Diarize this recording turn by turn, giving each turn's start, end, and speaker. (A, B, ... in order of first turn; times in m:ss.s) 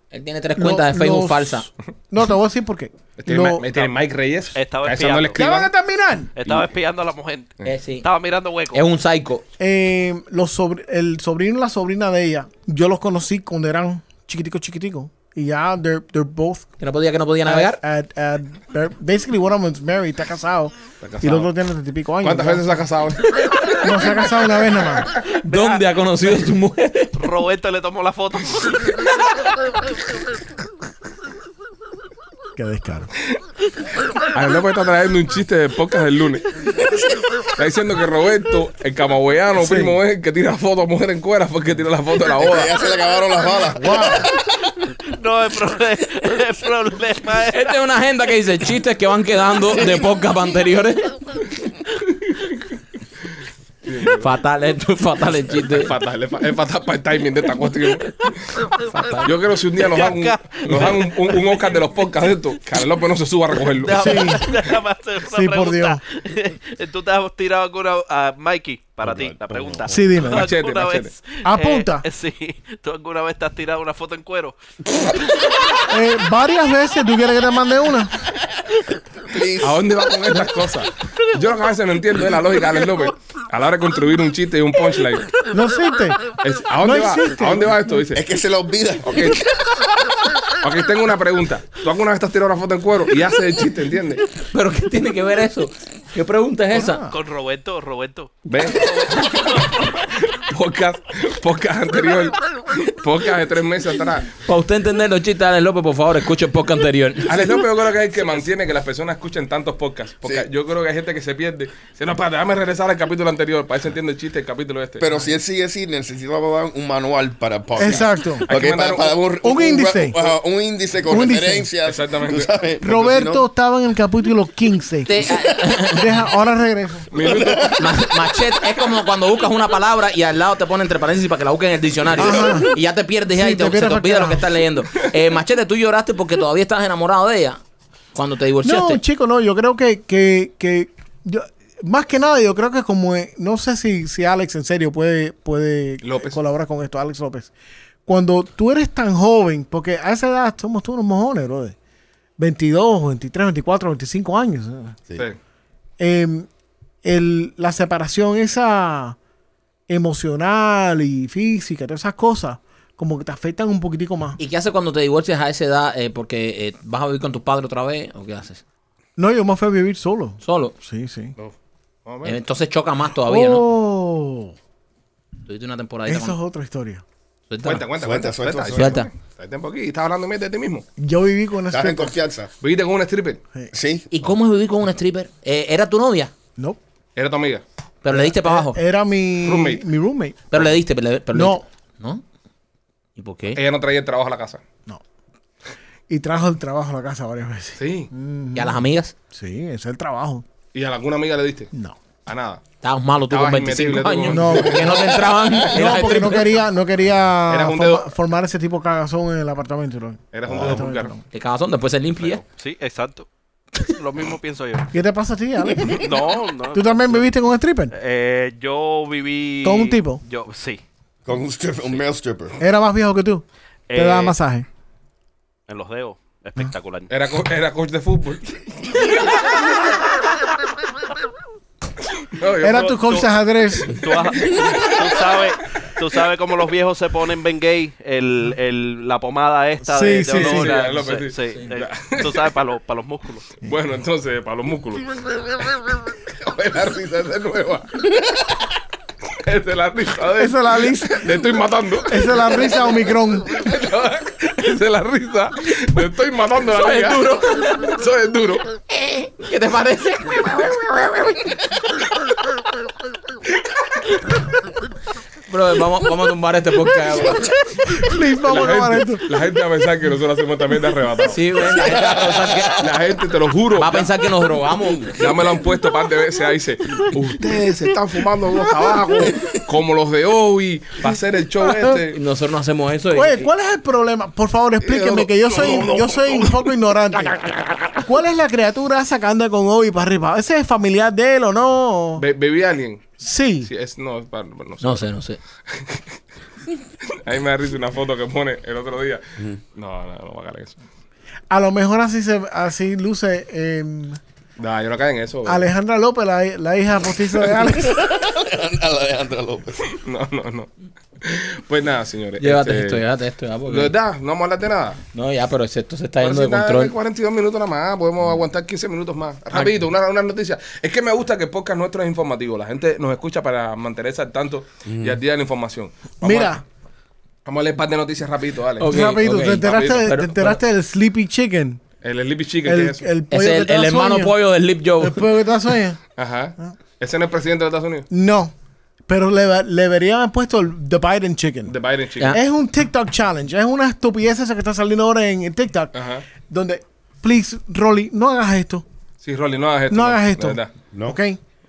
0:00.1-0:01.7 A
0:00.6-0:03.6 B
0:03.2-0:05.7 C
0:04.5-0:05.4 D
0:05.4-0:06.3 B
0:06.4-0:07.5 D
0:07.6-0:08.1 A
0:08.0-0:08.8 D
0:08.7-0:09.4 A
0:09.6-0:16.7 B
0:16.8-0:17.8 A
0:17.4-0:22.6 B
0:21.0-0:21.5 C
0:22.2-0:24.2 C
0:23.8-0:25.1 B
0:25.3-0:27.2 A
0:25.5-0:25.8 D
0:27.2-0:29.0 D
0:32.6-0:33.1 B
0:34.3-0:36.5 C
0:36.8-0:37.4 E
0:37.6-0:42.7 C
0:39.6-0:40.0 B
0:42.4-0:44.6 E
0:43.8-0:44.3 B
0:45.0-0:47.8 D
0:47.4-0:51.1 A
0:53.8-0:54.3 C
0:54.2-0:55.9 A
0:55.7-0:58.6 C
0:58.9-0:59.3 A
0:59.2-1:04.4 C
0:59.8-1:01.5 D
1:03.7-1:14.6 D
1:04.0-1:04.5 B
1:05.2-1:06.0 B
1:09.0-1:09.9 E
1:09.9-1:10.5 B
1:10.2-1:11.1 C
1:11.4-1:12.0 B
1:15.9-1:18.1 B
1:19.2-1:19.8 E
1:19.6-1:25.3 C
1:25.5-1:27.8 B
1:26.4-1:28.2 C
1:28.1-1:29.3 E
1:29.0-1:29.4 C
1:30.6-1:34.2 C
1:34.5-1:37.0 A
1:36.7-1:37.1 B
1:37.0-1:39.9 D
1:38.5-1:44.3 C
1:44.4-1:47.5 A
1:47.3-1:55.0 C
1:55.0-2:03.5 E
1:57.8-1:58.5 B
1:57.8-1:59.2 C
1:59.4-2:00.2 B
2:01.1-2:01.7 B
2:01.8-2:02.5 C
2:02.8-2:05.1 B
2:05.0-2:06.0 A
2:05.2-2:05.8 E
2:05.9-2:07.1 B
2:07.1-2:07.8 C
2:07.2-2:07.9 E
2:07.8-2:17.6 A
2:12.2-2:12.7 B
2:13.3-2:14.5 B
2:18.1-2:19.0 A
2:18.6-2:27.5 B
2:26.0-2:26.4 C
2:28.0-2:31.7 B
2:32.4-2:35.0 B
2:36.0-2:36.5 B
2:37.0-2:39.2 B
2:39.9-2:44.4 B
2:44.4-2:48.6 A
2:49.2-2:51.3 B
2:50.4-2:50.7 A
2:52.0-2:52.4 C
2:52.2-2:53.6 A
2:53.2-2:54.5 B
2:55.5-2:56.4 A
2:56.1-2:57.0 B
2:57.5-2:57.8 A
2:57.6-3:00.8 C
2:58.0-2:59.0 E
2:58.7-2:59.1 A
3:01.0-3:02.1 B
3:01.7-3:02.5 E
3:02.6-3:03.4 C
3:03.7-3:04.1 E
3:04.1-3:06.3 A
3:07.2-3:07.6 C
3:08.0-3:08.8 A
3:08.1-3:10.4 B
3:09.4-3:09.8 C
3:10.5-3:12.2 A
3:11.3-3:11.6 B
3:13.2-3:13.6 A
3:13.5-3:14.6 C
3:16.1-3:20.4 B
3:17.8-3:18.1 C
3:18.5-3:19.1 A
3:20.7-3:21.7 C
3:22.2-3:22.6 C
3:22.8-3:26.5 A
3:23.3-3:24.8 C
3:24.3-3:25.2 B
3:24.8-3:25.6 E
3:25.7-3:31.2 B
3:27.5-3:28.1 C
3:30.3-3:31.2 C
3:30.4-3:30.8 E
3:31.3-3:32.4 A
3:32.6-3:33.3 D
3:33.8-3:34.9 D
3:34.9-3:36.1 B
3:35.9-3:37.3 D
3:36.7-3:37.9 B
3:37.9-3:40.8 D
3:39.6-3:40.2 B
3:41.2-3:42.6 E
3:42.6-3:44.6 B
3:43.9-3:44.4 D
3:45.7-3:47.1 D
3:47.1-3:49.2 C
3:52.4-3:53.2 C
3:52.6-3:54.0 B
3:52.9-3:53.2 D
3:53.8-4:03.5 D
3:59.9-4:00.8 B
4:00.3-4:02.4 C
4:03.6-4:08.0 C
4:09.4-4:18.6 C
4:10.4-4:11.3 B
4:12.1-4:13.5 B
4:16.7-4:17.9 A
4:18.9-4:21.5 A
4:25.5-4:27.5 A
4:27.8-4:29.2 B
4:28.4-4:31.4 C
4:31.3-4:32.8 A
4:31.6-4:32.9 E
4:32.8-4:34.1 C
4:33.7-4:35.1 A
4:35.2-4:42.2 C
4:39.2-4:39.6 E
4:41.6-4:42.0 B
4:42.1-4:43.5 A
4:43.1-4:52.2 B
4:44.8-4:46.4 C
4:45.6-4:46.3 E
4:52.2-4:55.1 C
4:53.2-4:53.7 B
4:54.8-4:55.4 A
4:55.7-4:56.0 C
4:57.1-5:00.8 C
5:01.5-5:04.2 B
5:04.6-5:05.7 C
5:05.4-5:08.0 B
5:07.7-5:09.9 E
5:09.9-5:13.0 C
5:12.4-5:13.9 A
5:13.7-5:15.0 C
5:15.1-5:16.9 A
5:16.2-5:26.6 C
5:24.8-5:25.2 E
5:26.2-5:26.6 B
5:27.4-5:30.1 C
5:28.8-5:30.6 A
5:28.8-5:31.8 B
5:32.0-5:33.1 C
5:32.6-5:34.3 B
5:33.3-5:35.2 A
5:35.0-5:36.0 B
5:36.2-5:38.1 C
5:38.1-5:38.5 B
5:39.1-5:41.7 B
5:41.6-5:42.3 C
5:42.3-5:48.8 B
5:45.9-5:46.2 C
5:49.2-5:50.7 C
5:49.9-5:51.4 B
5:50.9-5:51.2 E